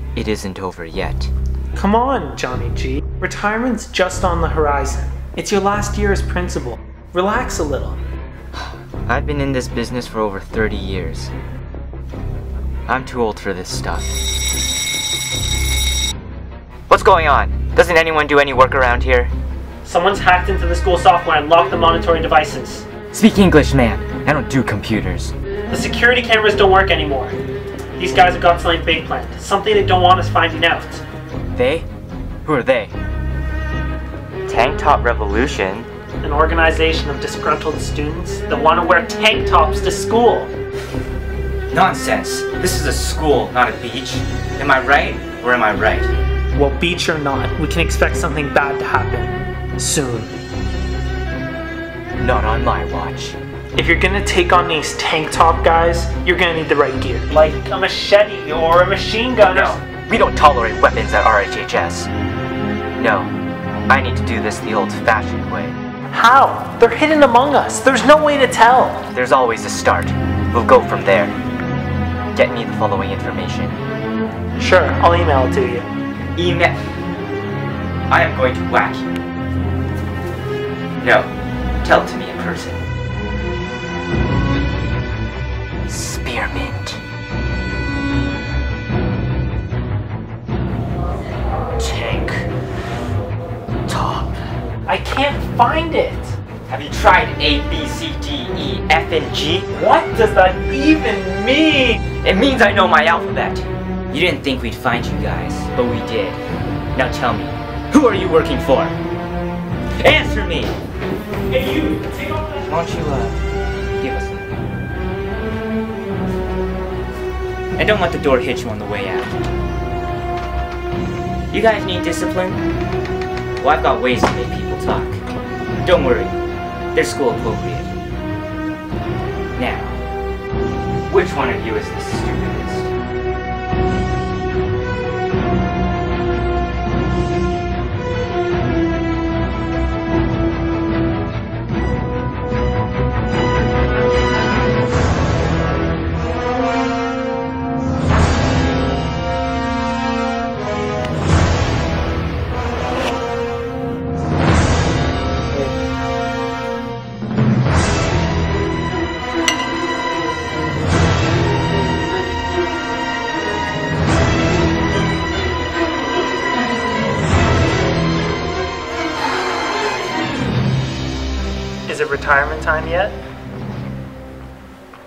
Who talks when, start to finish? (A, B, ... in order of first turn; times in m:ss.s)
0:00.2-0:01.3 A
0:01.7-0:08.0 B
0:09.0-0:11.3 A
0:12.9-0:14.2 A
0:16.9-0:19.3 A
0:19.8-0:22.8 B
0:23.1-0:25.3 A
0:25.7-0:27.4 B
0:28.0-0:31.0 B
0:31.6-0:31.8 A
0:32.4-0:32.9 A
0:34.5-0:35.9 A
0:36.2-0:40.5 B
0:41.7-0:46.1 A
0:46.5-0:50.3 B
0:52.2-0:53.4 A
0:53.8-0:59.8 B
0:59.4-1:02.1 A
1:03.0-1:03.3 A
1:03.9-1:05.7 A
1:06.1-1:09.1 B
1:09.1-1:11.4 A
1:12.3-1:13.8 A
1:14.6-1:15.8 B
1:16.4-1:16.8 A
1:18.1-1:19.1 A
1:21.0-1:21.3 A
1:21.8-1:22.8 A
1:25.9-1:27.0 A
1:31.8-1:32.5 A
1:33.9-1:34.4 A
1:34.8-1:36.3 B
1:36.7-1:39.7 A
1:39.7-1:42.0 B
1:42.0-1:46.4 A
1:46.9-1:49.0 A
1:50.0-1:50.8 A
1:51.5-1:52.6 B
1:52.6-1:53.4 A
1:54.0-1:54.6 A
1:57.8-1:59.3 A
2:01.5-2:02.6 A
2:03.6-2:05.2 A
2:05.7-2:06.4 A
2:06.9-2:07.9 A
2:09.6-2:10.0 A
2:11.1-2:12.9 A
2:51.9-2:53.2 B